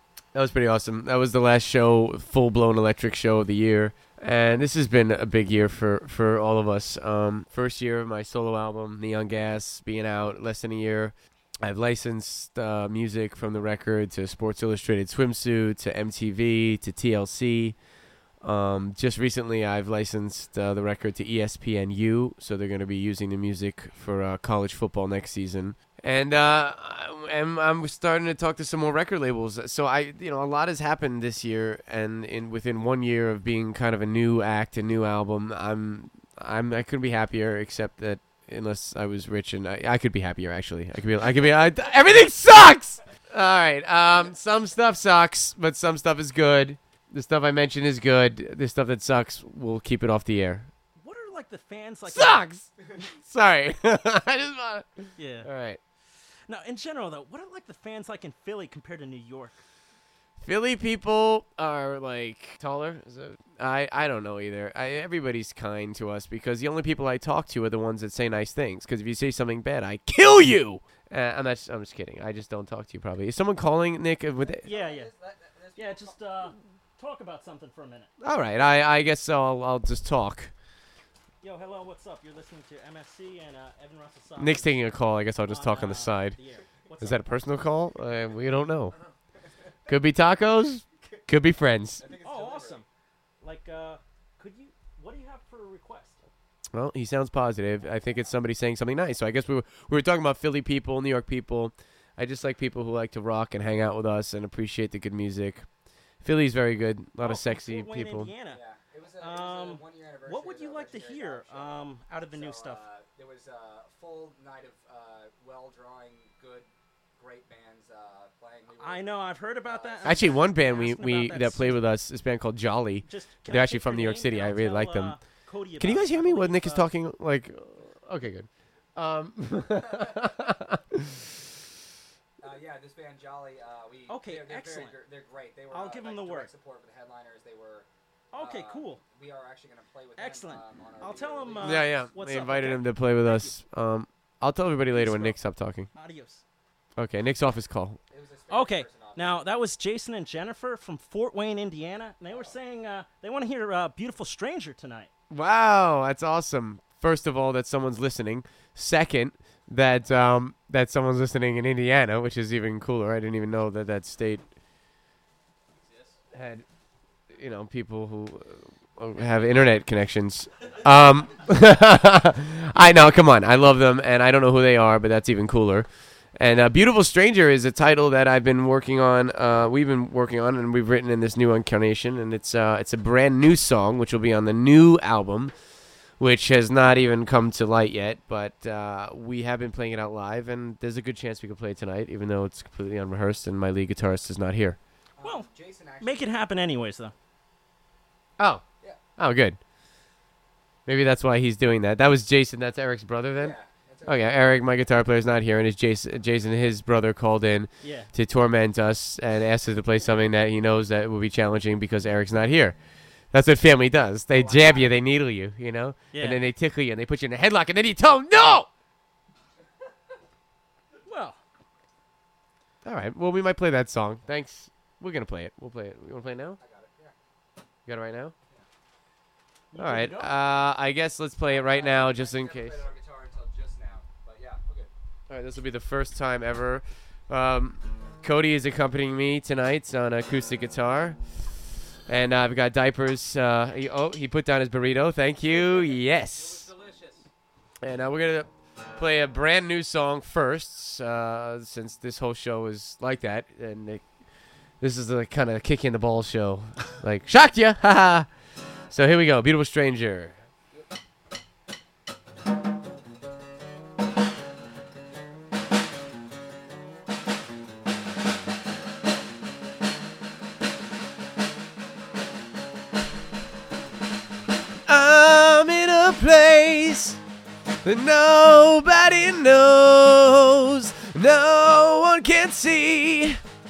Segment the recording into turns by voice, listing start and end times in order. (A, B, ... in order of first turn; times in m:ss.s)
0:00.3-0:17.8 A
0:18.4-0:50.7 A
0:51.0-0:52.4 B
0:52.0-0:55.8 A
0:55.2-0:55.5 B
0:56.5-0:59.6 B
1:00.4-1:14.7 A
1:14.4-1:16.5 C
1:14.6-1:15.1 B
1:15.8-1:18.1 B
1:18.2-1:20.5 A
1:21.4-1:24.8 B
1:24.4-1:26.4 A
1:25.4-1:27.3 B
1:27.0-1:29.0 A
1:29.9-1:32.0 A
1:32.0-1:32.8 C
1:32.2-1:32.8 B
1:33.4-1:36.2 B
1:36.7-1:45.7 A
1:46.2-1:48.3 A
1:47.2-1:48.6 B
1:48.5-2:00.4 C
1:49.2-1:52.8 B
1:58.8-2:01.8 B
2:00.0-2:05.2 A
2:03.0-2:06.9 B
2:05.8-2:11.3 A
2:12.4-2:21.9 C
2:14.1-2:14.9 B
2:15.7-2:16.5 B
2:18.3-2:19.0 B
2:20.2-2:23.5 B
2:21.6-2:25.9 A
2:24.9-2:25.4 B
2:25.9-2:26.4 B
2:27.0-2:28.0 A
2:28.1-2:29.4 C
2:28.5-2:35.1 B
2:32.3-2:32.6 C
2:35.3-2:44.4 A
2:46.3-2:46.6 A
2:47.3-3:05.5 A
2:52.8-2:53.0 B
3:06.2-3:14.8 A
3:15.2-3:16.4 C
3:15.2-3:15.5 B
3:16.0-3:17.1 B
3:18.4-3:18.6 A
3:19.2-3:19.6 A
3:20.8-3:32.8 A
3:23.4-3:24.3 C
3:27.8-3:28.1 B
3:33.3-3:38.7 A
3:34.3-3:35.0 C
3:36.1-3:36.4 B
3:41.0-3:41.4 B
3:42.8-3:46.6 A
3:46.6-3:47.1 C
3:47.8-3:48.3 A
3:49.7-3:50.3 B
3:49.8-3:52.8 A
3:51.5-3:54.9 C
3:55.3-4:01.2 A
4:02.1-4:06.7 A
4:05.4-4:07.3 C
4:07.8-4:14.1 A
4:14.8-4:18.3 A
4:18.9-4:20.4 A
4:34.9-4:37.2 A
4:37.8-4:43.4 A